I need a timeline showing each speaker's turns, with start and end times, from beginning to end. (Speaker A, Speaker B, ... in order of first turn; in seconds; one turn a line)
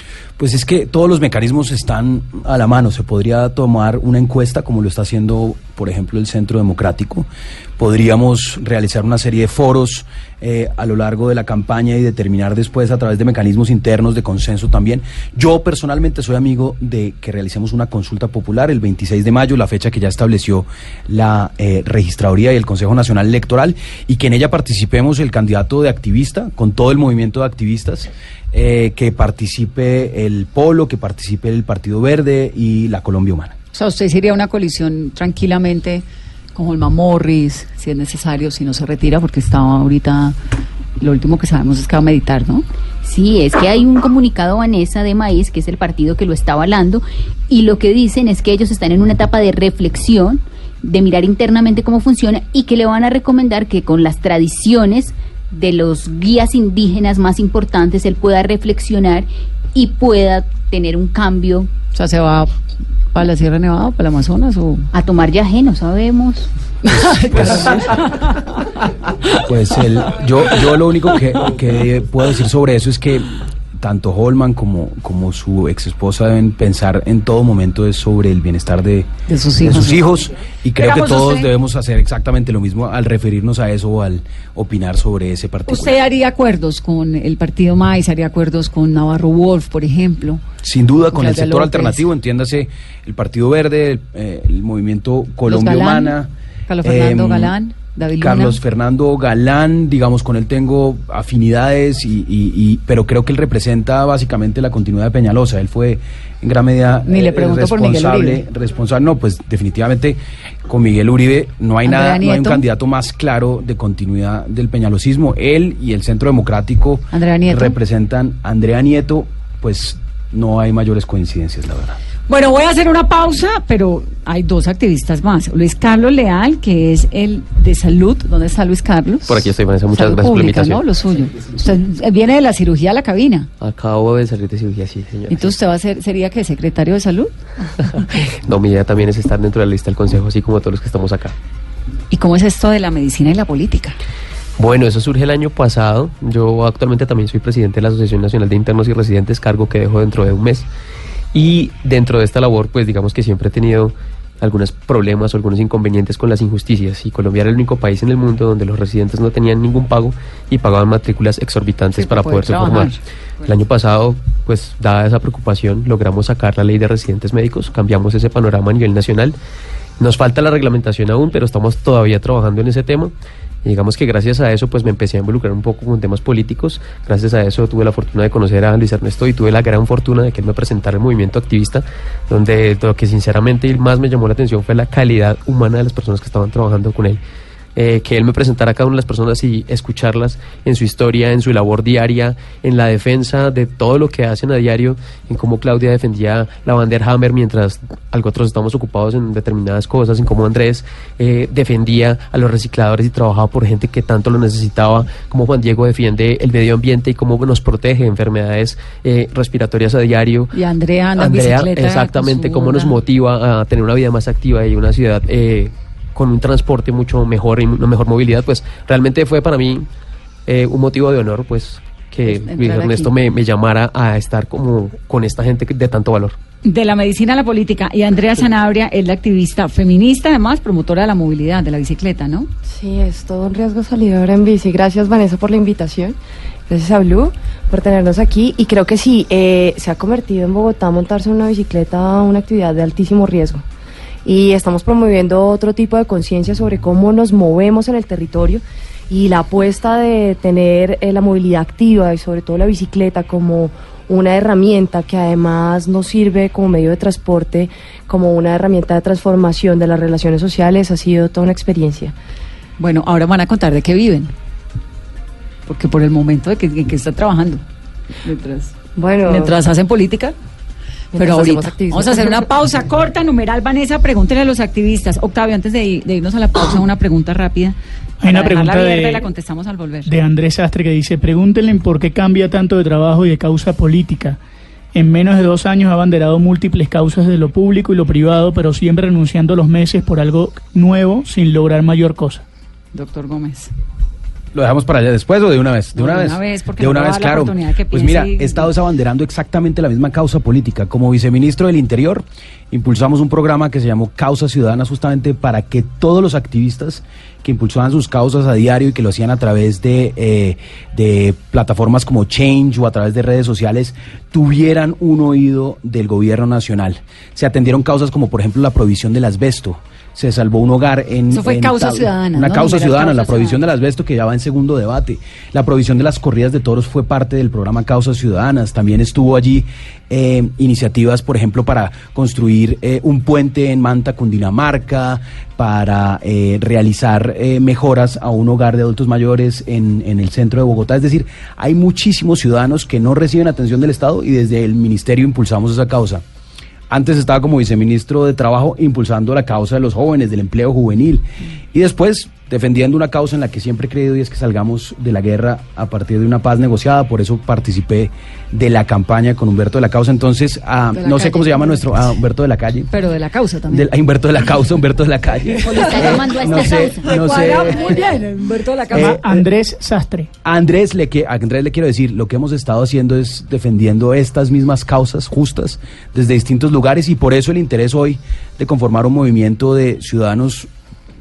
Speaker A: 0.4-33.5
Speaker B: 33.7-40.3
Speaker B: 41.0-42.6
Speaker C: 43.0-61.7
Speaker B: 61.9-62.5
Speaker B: 63.1-64.9
Speaker C: 64.9-66.5
Speaker B: 66.9-68.5
Speaker A: 67.0-68.0
Speaker A: 69.4-79.1
Speaker B: 79.3-80.1
Speaker A: 79.6-86.0
Speaker B: 80.8-81.5
Speaker B: 85.7-90.4
Speaker A: 90.6-96.3
Speaker B: 91.1-92.0
Speaker B: 95.5-96.2
Speaker B: 96.7-98.6
Speaker A: 96.8-97.5
Speaker A: 98.2-122.0
Speaker B: 107.1-108.4
Speaker B: 111.8-112.6
Speaker B: 117.1-117.8
Speaker B: 122.3-133.5
Speaker D: 129.3-130.8
Speaker D: 133.6-135.5
Speaker B: 135.3-137.3
Speaker D: 138.2-141.3
Speaker B: 142.1-144.0
Speaker D: 144.6-150.7
Speaker D: 151.3-169.3
Speaker B: 161.9-163.5
Speaker D: 170.0-173.1
Speaker D: 173.6-187.2
Speaker D: 187.7-210.6
Speaker B: 210.5-213.0
Speaker D: 211.2-219.9
Speaker D: 220.4-226.4
Speaker B: 222.2-223.1
Speaker B: 226.6-232.5
Speaker E: 232.7-236.2
Speaker E: 236.7-243.6
Speaker E: 244.2-262.1
Speaker B: 262.8-264.3
Speaker B: 265.7-267.6
Speaker B: 268.2-268.7
Speaker E: 269.0-269.5
Speaker B: 269.2-270.3
Speaker E: 271.1-272.4
Speaker B: 271.1-280.1
Speaker F: 278.2-279.3
Speaker F: 280.1-284.4
Speaker F: 284.9-292.4
Speaker B: 292.9-293.7
Speaker A: 294.5-346.2
Speaker B: 295.9-298.7
Speaker B: 321.3-323.6
Speaker A: 346.9-362.9
Speaker B: 360.9-362.1
Speaker B: 362.9-363.9
Speaker A: 363.7-368.1
Speaker C: 365.6-367.1
Speaker B: 365.7-369.2
Speaker A: 368.9-369.4
Speaker F: 368.9-370.3
Speaker A: 370.4-380.7